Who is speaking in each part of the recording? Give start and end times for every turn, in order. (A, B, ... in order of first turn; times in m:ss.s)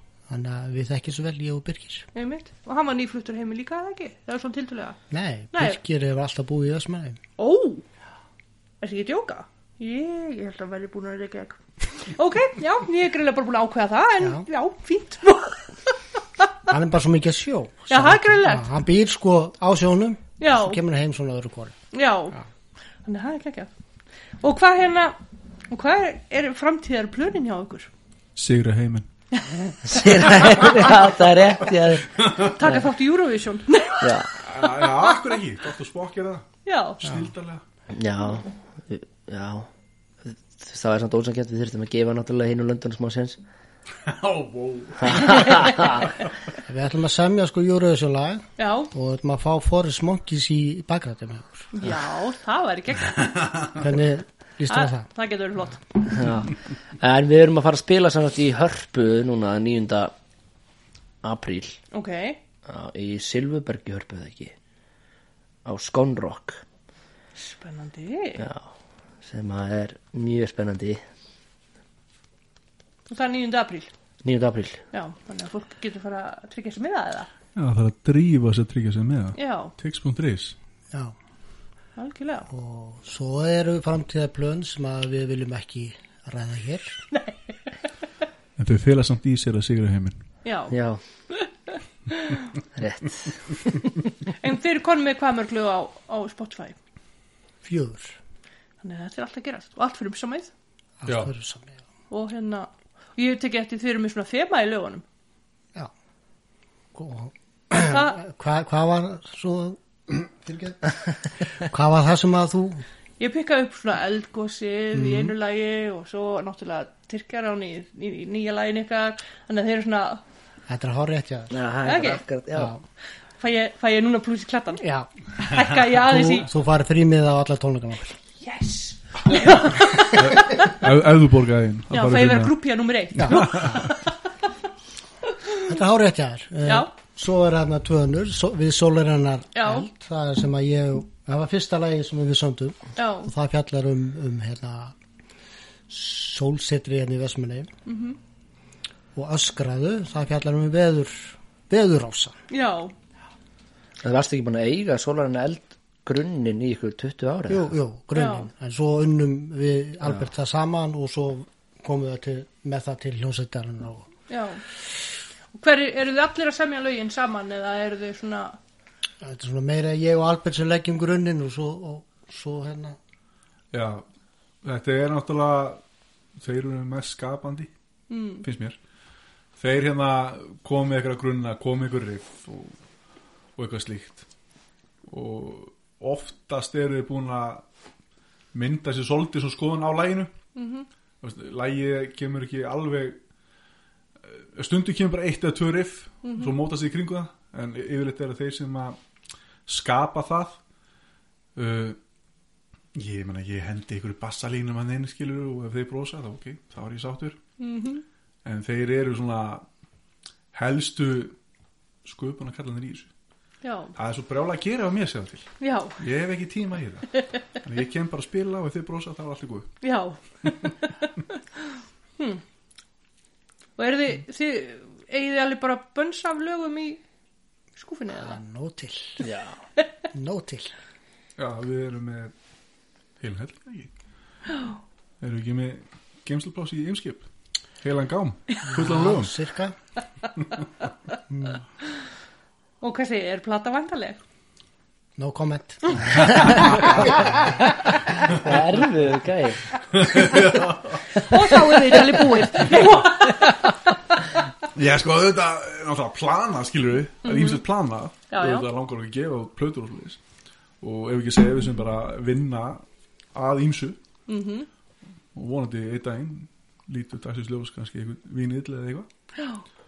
0:00.3-0:02.1 A
0:02.2-0:05.0 B
0:05.1-0:07.2 A
0:05.5-0:05.8 B
0:07.4-0:07.8 B
0:08.8-0:16.5 B
0:14.2-0:14.5 A
0:16.7-0:21.8 A
0:17.9-0:18.7 B
0:20.4-0:20.8 B
0:21.9-0:22.4 B
0:23.0-0:23.7 B
0:24.4-0:27.9 B
0:28.4-0:29.1 C
0:29.3-0:30.9 B
0:29.8-0:32.9 D
0:32.4-0:35.1 B
0:34.0-0:34.4 D
0:34.4-0:36.5 C
0:36.6-0:37.0 B
0:37.0-0:37.6 C
0:37.9-0:39.7 D
0:40.2-0:43.4 D
0:44.0-0:46.3 C
0:45.0-0:46.1 D
0:45.2-0:45.7 B
0:46.7-0:51.7 A
0:48.6-0:48.9 B
0:51.7-0:53.3 B
0:53.8-0:55.1 A
0:54.7-0:55.8 B
0:56.1-1:00.1 D
1:01.2-1:01.8 D
1:01.9-1:02.4 B
1:02.7-1:04.5 D
1:05.6-1:06.6 D
1:07.4-1:08.4 B
1:08.4-1:08.7 D
1:09.2-1:11.0 D
1:13.1-1:13.9 B
1:14.2-1:14.8 D
1:14.9-1:17.3 B
1:17.6-1:20.6 C
1:19.4-1:19.7 B
1:22.0-1:22.5 B
1:22.5-1:27.1 A
1:28.6-1:30.2 C
1:30.4-1:30.8 B
1:30.7-1:31.0 D
1:32.1-1:32.5 B
1:32.7-1:33.7 D
1:34.4-1:36.8 B
1:37.6-1:38.2 A
1:38.8-1:40.5 B
1:41.0-1:41.8 A
1:42.1-1:45.0 B
1:46.9-1:51.0 A
1:47.8-1:48.2 B
1:51.5-1:52.8 A
1:53.2-2:00.2 B
1:54.9-1:55.3 A
2:00.7-2:01.5 A
2:01.5-2:02.7 D
2:01.8-2:02.2 B
2:02.6-2:02.8 A
2:03.4-2:04.8 B
2:04.8-2:05.1 A
2:05.4-2:06.5 B
2:05.9-2:08.2 A
2:08.4-2:10.8 B
2:10.2-2:12.6 C
2:11.9-2:14.0 B
2:13.2-2:13.8 C
2:13.2-2:13.8 A
2:15.6-2:25.0 A
2:16.6-2:16.9 B
2:19.6-2:19.9 B
2:23.0-2:23.3 B
2:25.9-2:27.7 A
2:27.9-2:28.2 B
2:29.2-2:32.4 A
2:32.5-2:32.9 B
2:34.0-2:37.7 D
2:37.5-2:44.1 A
2:38.2-2:38.5 B
2:44.3-2:44.6 B
2:45.6-2:48.6 B
2:49.2-2:53.0 A
2:53.7-2:54.0 C
2:54.6-2:55.8 C
2:56.4-2:57.7 C
2:58.1-2:58.5 B
2:58.4-2:58.8 C
2:59.6-3:02.8 C
3:03.6-3:04.3 C
3:05.1-3:07.6 C
3:08.5-3:10.3 C
3:10.6-3:10.9 B
3:11.2-3:13.2 C
3:14.2-3:19.0 C
3:16.2-3:16.5 B
3:19.7-3:20.6 C
3:21.6-3:22.0 C
3:23.0-3:27.4 C
3:27.6-3:28.0 B
3:28.4-3:29.6 C
3:30.5-3:31.4 C
3:32.0-3:33.1 C
3:33.6-3:33.9 B
3:34.0-3:39.7 C
3:35.6-3:36.0 B
3:39.8-3:41.2 B
3:43.8-3:47.0 B
3:47.8-3:48.4 B
3:48.1-3:49.3 A
3:49.2-3:49.6 D
3:50.1-3:50.7 A
3:51.4-3:52.3 C
3:53.2-3:53.9 C
3:54.5-3:54.8 B
3:55.2-3:57.3 C
3:57.8-3:59.3 C
3:58.7-3:59.8 A
4:01.3-4:01.6 A
4:02.8-4:04.2 B
4:05.2-4:07.6 A
4:06.1-4:10.4 D
4:09.9-4:11.2 C
4:11.1-4:13.8 B
4:11.7-4:12.7 D
4:14.7-4:20.2 C
4:17.2-4:17.6 B
4:18.3-4:18.7 B
4:20.8-4:24.0 C
4:24.3-4:24.7 B
4:25.4-4:29.1 C
4:29.4-4:29.6 B